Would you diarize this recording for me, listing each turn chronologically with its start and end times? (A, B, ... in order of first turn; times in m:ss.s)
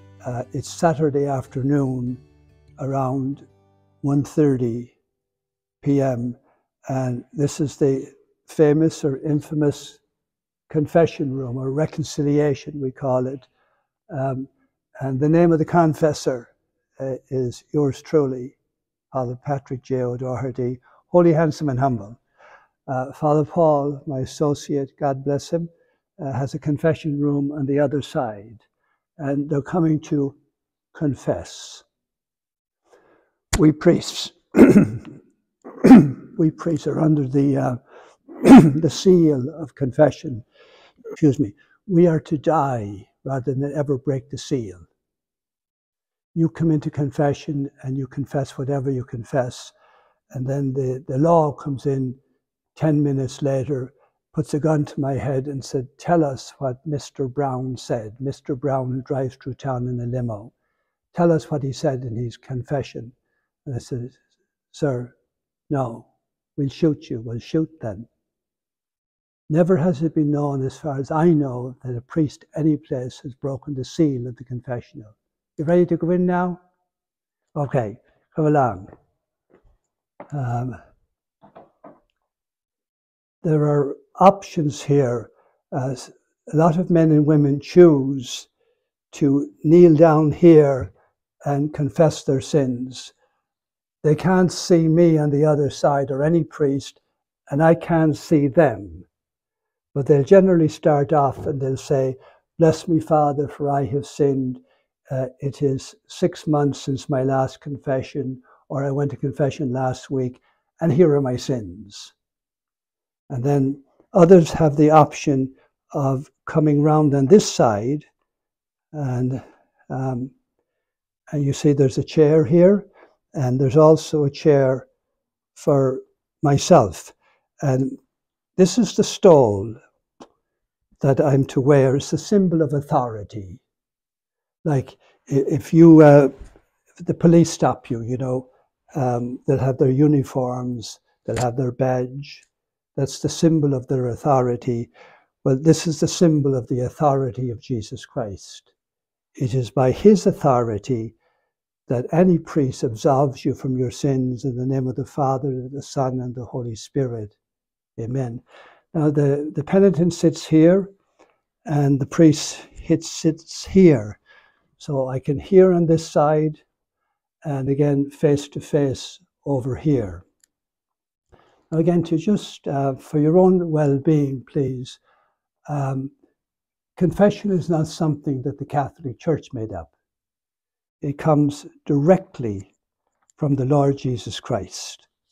0:00.2-0:02.2 A
0:02.8-0:03.5 A
0:04.0-0:05.0 A
0:05.8-0:10.0 A
0:10.7-0:13.5 A
0:14.1-0:14.5 A
0:15.0-0:18.6 A
0:19.1-0:22.2 A
0:22.9-0:28.6 A
0:29.2-0:30.4 A
0:30.9-0:31.8 A
0:33.6-0:35.1 A
0:35.8-0:40.4 A
0:41.2-0:44.9 A
0:46.4-0:49.7 A
0:50.3-0:52.2 A
0:52.8-1:00.5 A
1:01.1-1:03.2 A
1:03.7-1:04.2 A
1:04.7-1:05.1 A
1:05.7-1:08.1 A
1:09.5-1:16.6 A
1:17.6-1:18.9 A
1:20.3-1:20.8 A
1:23.4-1:28.5 A
1:29.1-1:30.9 A
1:31.4-1:33.1 A
1:34.0-1:39.1 A
1:39.9-1:52.1 A
1:53.3-1:58.1 A
1:58.9-2:00.3 A
2:01.3-2:04.9 A
2:05.6-2:08.0 A
2:08.6-2:09.8 A
2:11.0-2:13.6 A
2:14.6-2:16.3 A
2:17.0-2:24.9 A
2:25.4-2:28.7 A
2:29.4-2:31.2 A
2:31.9-2:37.4 A
2:38.0-2:40.9 A
2:41.7-2:44.2 A
2:44.8-2:46.6 A
2:47.4-2:50.2 A
2:51.7-2:55.0 A
2:55.7-2:56.1 A
2:57.0-2:59.9 A
3:01.0-3:02.7 A
3:03.4-3:05.1 A